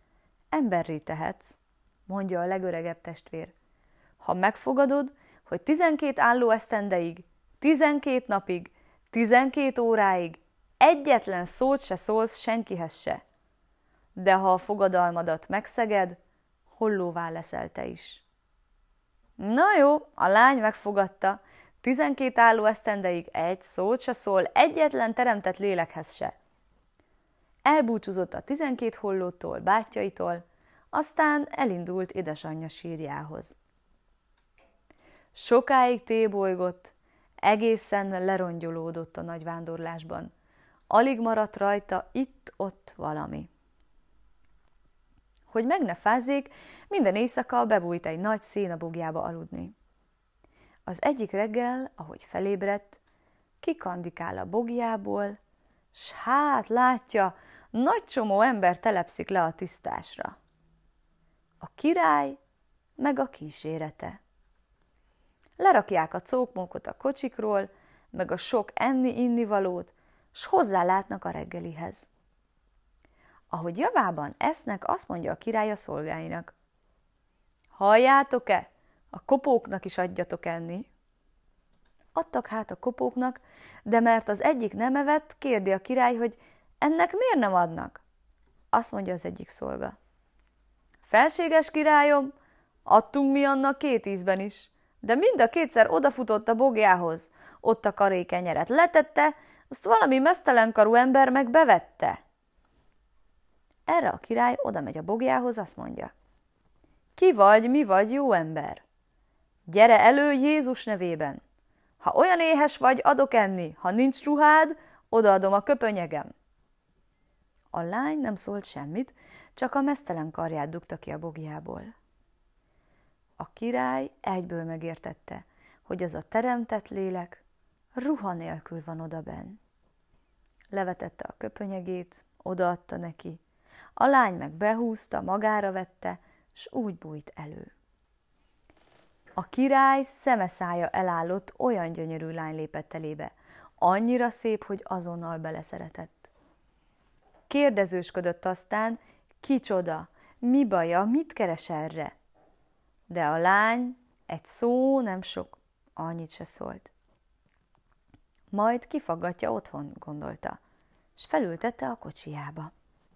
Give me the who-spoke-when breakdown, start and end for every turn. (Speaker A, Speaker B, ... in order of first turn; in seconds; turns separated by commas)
Speaker A: 0.5-3.5, Speaker A: 4.2-13.2, Speaker A: 14.2-16.2, Speaker A: 16.7-18.2, Speaker A: 19.4-26.4, Speaker A: 27.6-33.6, Speaker A: 35.3-40.3, Speaker A: 40.9-43.5, Speaker A: 45.5-49.8, Speaker A: 50.9-53.0, Speaker A: 53.6-55.4, Speaker A: 55.9-60.4, Speaker A: 61.6-62.4, Speaker A: 63.0-64.2, Speaker A: 65.6-72.1, Speaker A: 73.5-76.5, Speaker A: 77.8-80.9, Speaker A: 82.2-88.0, Speaker A: 88.7-90.0, Speaker A: 91.0-92.3, Speaker A: 92.9-102.2, Speaker A: 103.9-106.1, Speaker A: 107.2-108.8, Speaker A: 109.7-111.4, Speaker A: 112.0-116.3, Speaker A: 117.7-121.9, Speaker A: 123.4-127.4, Speaker A: 128.0-129.6, Speaker A: 130.7-133.4, Speaker A: 134.0-137.7, Speaker A: 139.4-146.3, Speaker A: 147.5-152.2, Speaker A: 153.1-156.9, Speaker A: 158.5-160.6, Speaker A: 161.2-162.7